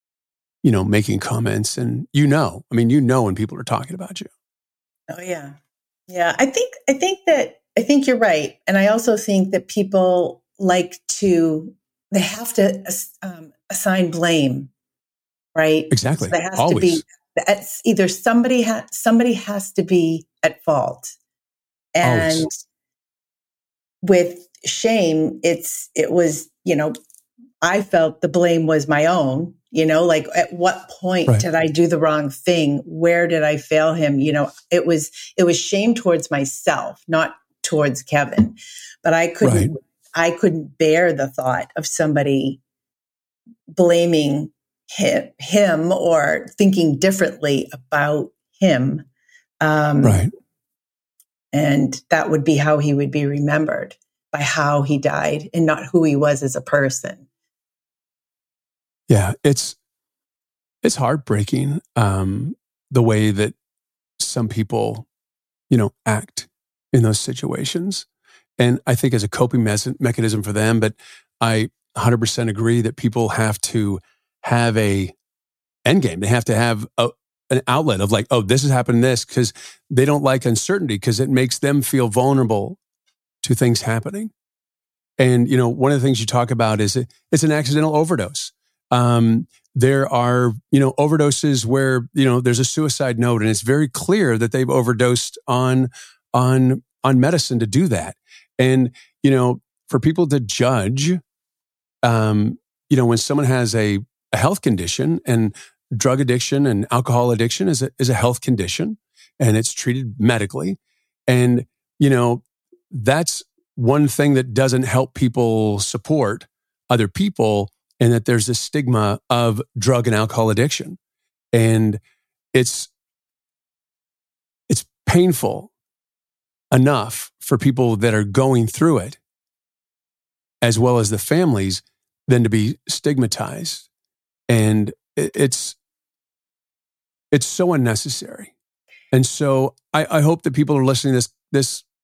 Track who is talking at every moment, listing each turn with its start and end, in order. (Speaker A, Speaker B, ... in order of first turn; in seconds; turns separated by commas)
Speaker A: 0.6-4.3, Speaker B: 5.1-5.5, Speaker B: 6.1-14.7, Speaker B: 15.5-21.1, Speaker A: 15.9-17.0, Speaker B: 21.9-22.6, Speaker A: 22.0-22.5, Speaker B: 24.0-26.9, Speaker B: 27.6-42.6, Speaker A: 39.4-39.7, Speaker B: 43.7-49.0, Speaker B: 49.6-50.2, Speaker A: 50.0-50.3, Speaker B: 51.5-57.3, Speaker A: 59.1-59.8, Speaker A: 60.8-63.5, Speaker A: 64.2-65.1, Speaker A: 65.7-68.0, Speaker A: 68.6-75.1, Speaker A: 75.8-82.8, Speaker A: 83.4-84.3, Speaker A: 85.2-101.2, Speaker A: 102.0-121.0, Speaker A: 121.5-122.0, Speaker A: 122.5-122.9, Speaker A: 124.7-125.7, Speaker A: 126.7-129.2, Speaker A: 130.6-133.9, Speaker A: 134.5-135.8, Speaker A: 137.3-138.5, Speaker A: 139.1-141.8